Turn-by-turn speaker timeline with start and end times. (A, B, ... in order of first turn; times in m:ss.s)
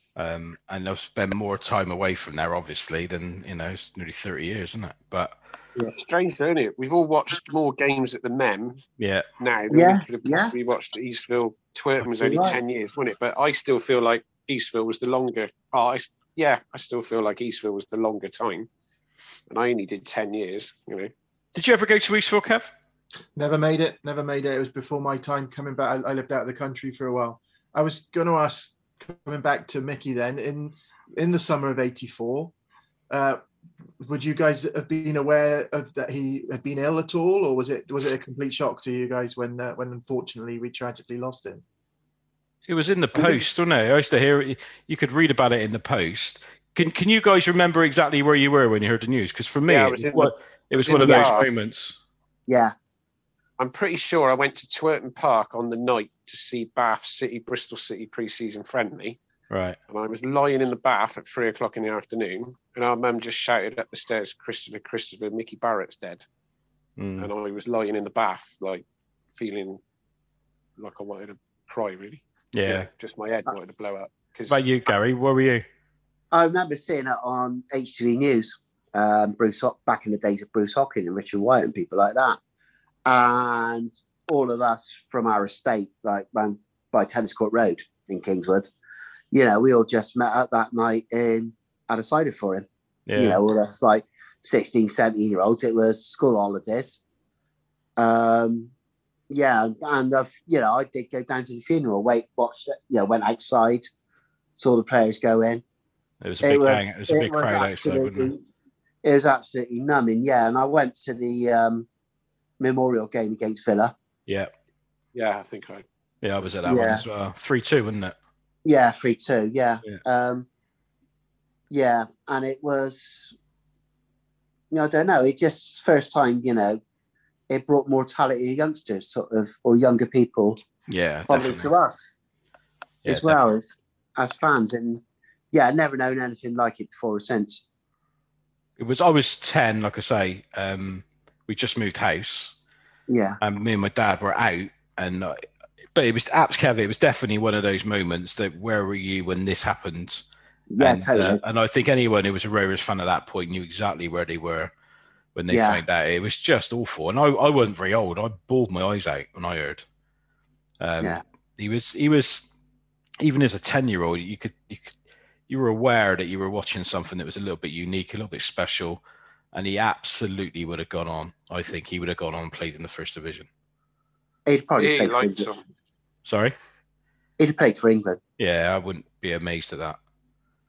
0:00.2-0:05.3 A
0:06.0-0:08.8 B
0:09.0-0:09.2 A
0:09.4-0:18.7 B
0:09.7-0:10.5 C
0:12.2-0:12.6 C
0:19.5-0:21.1 B
0:21.5-0:22.7 A
0:23.4-0:32.5 D
0:33.1-0:33.4 D
0:34.0-0:41.6 D
0:42.7-0:52.0 A
0:43.1-0:43.4 C
0:49.7-0:51.5 B
0:51.0-0:51.4 C
0:52.5-0:52.7 C
0:53.6-0:59.2 B
0:59.5-0:59.8 A
0:59.9-1:06.2 B
1:07.0-1:07.3 A
1:07.2-1:09.8 B
1:10.8-1:14.6 B
1:12.5-1:12.9 A
1:14.5-1:15.6 A
1:16.3-1:22.4 C
1:23.0-1:28.7 C
1:29.3-1:37.0 C
1:33.1-1:33.4 A
1:38.0-1:38.7 C
1:39.3-1:43.9 C
1:44.6-1:45.6 C
1:46.2-1:48.3 A
1:46.4-1:48.4 C
1:49.0-1:51.9 C
1:52.6-1:53.9 C
1:55.1-1:55.8 B
1:56.2-1:58.2 A
1:56.6-1:57.0 C
1:58.6-2:00.5 C
2:01.7-2:03.3 C
2:04.7-2:06.8 C
2:07.5-2:10.6 C
2:10.9-2:11.7 A
2:11.3-2:12.1 C
2:13.0-2:13.4 A
2:13.1-2:17.6 C
2:18.8-2:22.5 A
2:23.1-2:23.4 C
2:23.4-2:25.4 A
2:25.9-2:30.2 A
2:30.7-2:31.4 C
2:30.8-2:34.7 A
2:35.3-2:39.8 A
2:35.5-2:35.8 C
2:40.8-2:42.5 A
2:43.2-2:44.9 A
2:45.5-2:49.0 A
2:49.5-2:53.5 A
2:54.4-2:55.5 C
2:54.8-2:55.6 B
2:56.2-2:56.5 A
2:57.4-2:58.2 C
2:58.4-3:00.0 A